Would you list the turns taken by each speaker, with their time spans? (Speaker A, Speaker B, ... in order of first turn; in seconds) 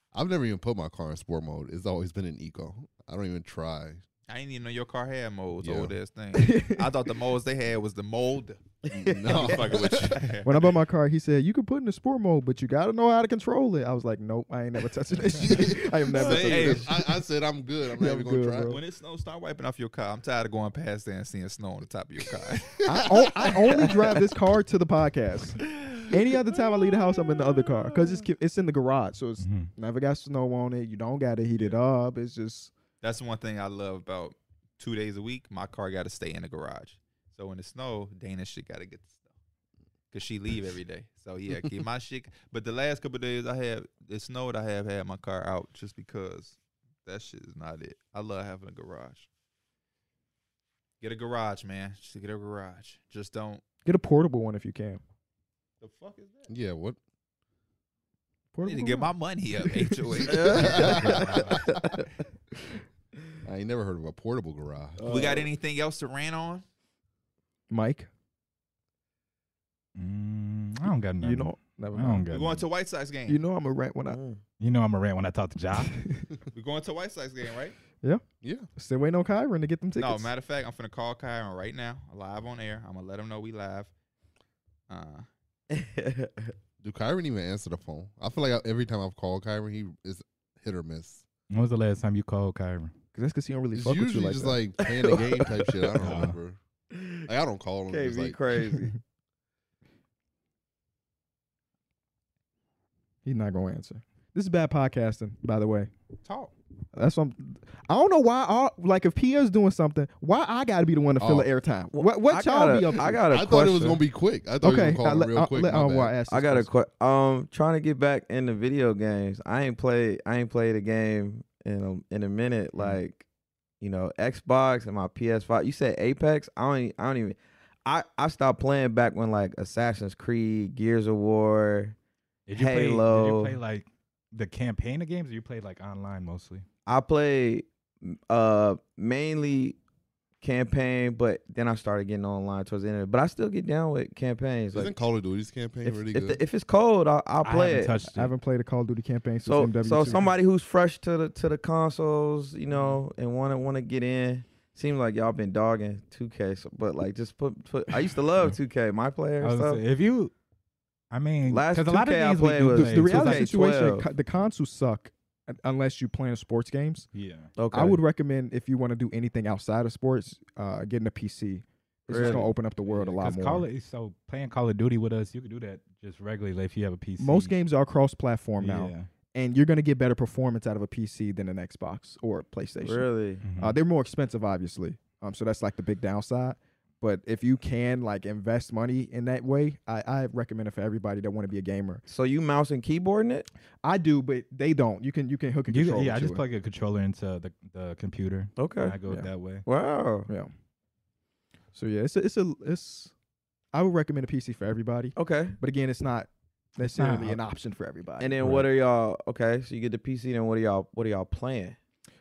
Speaker A: 0.1-4.0, 5.6-5.9, 8.9-10.3, 15.3-18.8, 56.5-57.0, 60.2-61.7, 63.5-65.1, 78.4-78.7, 86.8-91.2, 93.7-96.6, 97.2-98.4, 111.2-111.5, 113.2-116.2, 144.7-146.4
Speaker B: 4.3-8.7, 9.2-10.7, 16.1-16.9, 18.7-22.9, 33.0-39.2, 40.1-49.3, 51.0-53.6, 55.8-56.5, 58.6-61.3, 65.1-66.6, 72.3-73.4, 76.5-77.8, 80.0-83.9, 84.9-85.3, 106.2-106.5
Speaker C: 6.3-6.9, 10.4-16.9, 18.0-18.8, 22.9-32.7, 53.9-55.0, 58.5-59.1, 67.7-68.1, 71.2-72.3, 73.3-74.2, 75.9-76.3, 78.8-80.3, 93.1-94.6, 103.2-105.9, 106.9-113.2, 114.6-116.7, 148.1-150.3, 162.7-167.1, 167.7-173.7, 177.2-192.0, 193.8-196.4, 201.8-203.1, 203.7-208.4
Speaker D: 9.3-9.5, 60.2-62.1, 65.0-65.5, 74.1-74.4, 85.7-86.5, 94.8-96.0, 96.9-97.3, 97.9-98.9, 111.9-114.0, 116.3-123.3, 123.8-132.0, 132.6-133.6, 136.9-139.8, 140.4-144.9, 145.8-147.9, 149.5-159.8, 161.5-164.1, 167.6-168.0, 172.1-172.6, 182.8-183.4, 192.1-193.5, 198.6-200.3, 205.2-205.6, 208.2-211.8
Speaker E: 29.4-29.7, 60.8-61.5, 70.0-72.7, 74.6-76.1, 91.5-92.9, 96.0-96.3, 132.5-136.7, 147.4-148.3, 159.4-160.3, 161.1-163.5, 167.1-167.5, 172.1-177.5, 178.6-179.1, 183.4-183.8, 195.7-199.7, 206.8-207.4, 208.4-208.7